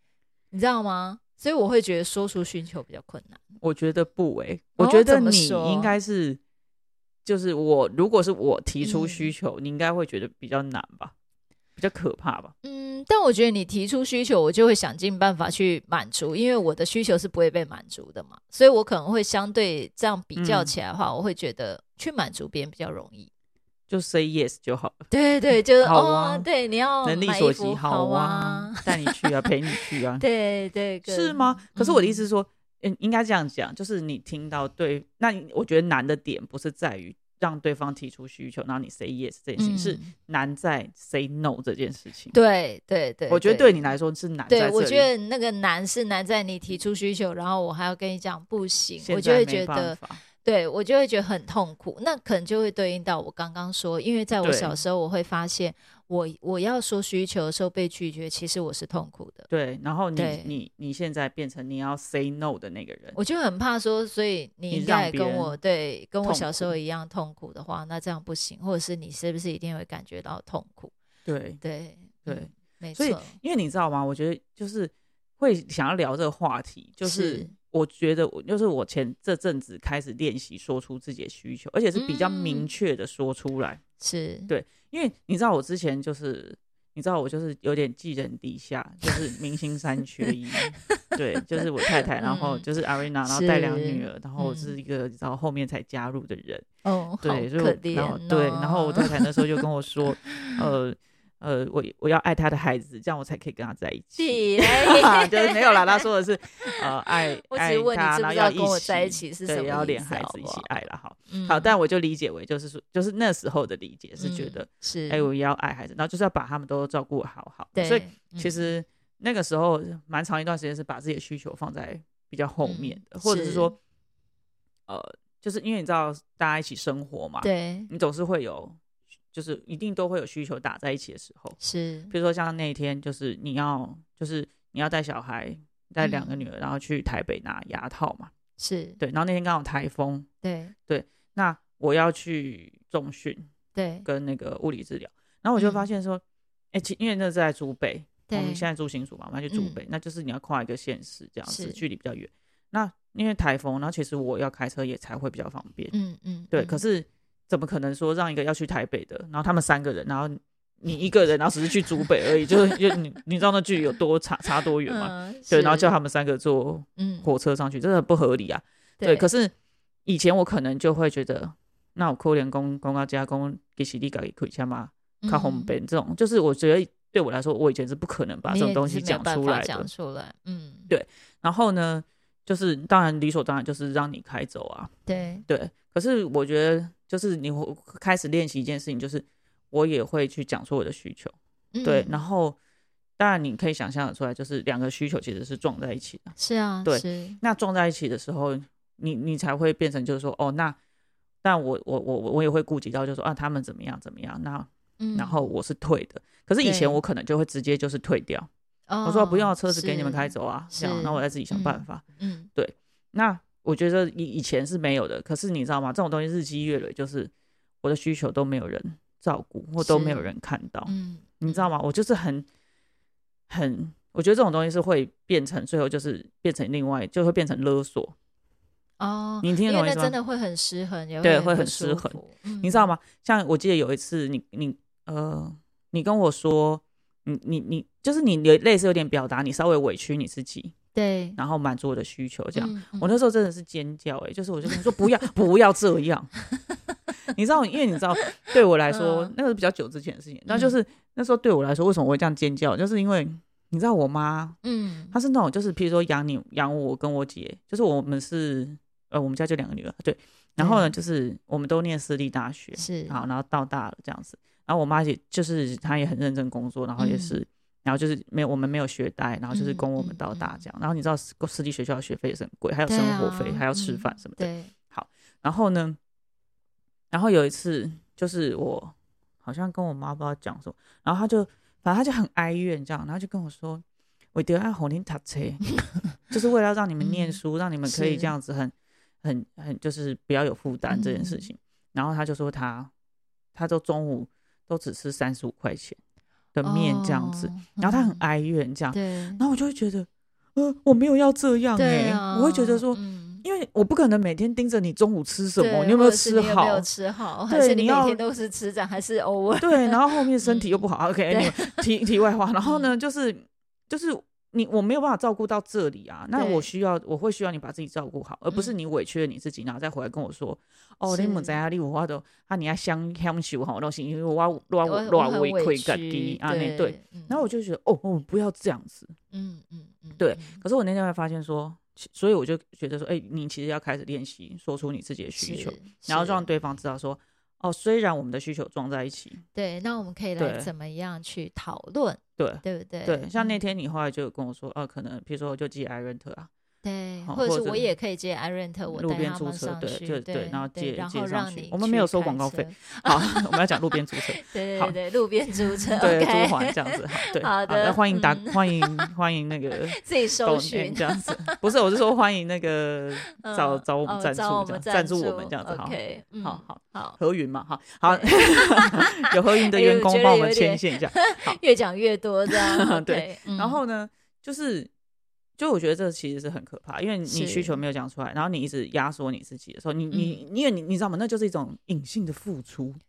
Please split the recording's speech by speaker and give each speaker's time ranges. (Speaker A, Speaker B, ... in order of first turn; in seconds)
Speaker A: 0.5-3.4, 4.8-6.0, 8.8-9.3, 12.6-23.3, 25.1-32.2, 39.6-40.1, 42.3-43.9, 44.5-59.5, 60.1-60.6, 63.1-70.9, 71.6-73.3, 77.0-77.5, 81.9-82.7, 84.0-84.5, 90.7-91.0, 92.2-92.7, 93.2-94.7, 96.8-99.6, 100.2-100.7, 104.2-106.0, 107.4-110.7, 111.3-111.7, 114.2-115.3, 117.7-118.6, 122.6-123.7, 127.4-127.9, 131.6-132.1, 136.0-136.4, 138.6-139.0, 140.4-140.7, 143.7-144.1, 145.6-145.8, 148.3-148.7, 149.5-149.8, 151.5-151.8, 155.9-156.8, 161.9-162.6, 164.8-165.9, 167.0-167.3, 169.0-169.3, 175.2-175.7, 178.4-180.9, 185.1-185.4, 191.7-192.2, 196.4-197.4, 205.0-205.5, 206.6-207.0, 208.9-212.5, 219.8-220.3, 220.8-221.7, 229.0-232.9, 240.9-241.4, 242.6-243.1, 248.9-249.3, 250.5-250.7, 254.6-255.1, 260.6-260.9, 262.8-263.2, 267.0-267.4, 269.5-270.6, 272.9-274.7, 287.0-288.3, 290.9-291.5, 296.6-298.2, 298.9-299.4, 301.8-303.4, 305.6-311.8, 312.6-312.9, 316.3-316.7, 321.1-321.6, 324.8-327.4, 329.3-330.6, 335.4-336.4, 339.5-343.6, 346.8-353.8, 354.4-359.1, 359.9-361.6, 363.4-367.2, 368.1-373.8, 377.2-377.8, 380.1-380.4
Speaker B: 3.6-6.4, 7.2-11.1, 11.8-12.5, 20.4-20.7, 23.9-25.1, 25.8-26.5, 27.0-30.2, 31.0-42.4, 43.3-45.1, 49.0-50.2, 54.4-54.8, 59.5-63.2, 64.7-65.5, 66.2-66.7, 71.2-71.6, 72.2-83.8, 84.5-96.6, 97.2-123.8, 124.9-128.8, 129.3-131.6, 132.1-138.3, 139.0-140.3, 140.9-143.5, 144.0-146.2, 146.7-155.9, 156.5-169.5, 170.1-179.9, 180.9-184.9, 185.5-192.6, 193.2-200.8, 201.4-208.5, 209.0-212.0, 212.5-217.3, 217.8-222.4, 223.5-228.1, 229.4-230.2, 231.2-240.7, 241.4-246.3, 247.3-254.6, 255.1-276.0, 277.1-285.7, 286.3-292.9, 293.5-296.0, 296.5-306.9, 307.5-308.2, 309.6-329.1, 330.2-339.4, 340.4-340.7, 342.4-346.5, 347.2-347.9, 348.9-355.0, 356.0-371.6, 372.5-374.9, 375.6-383.0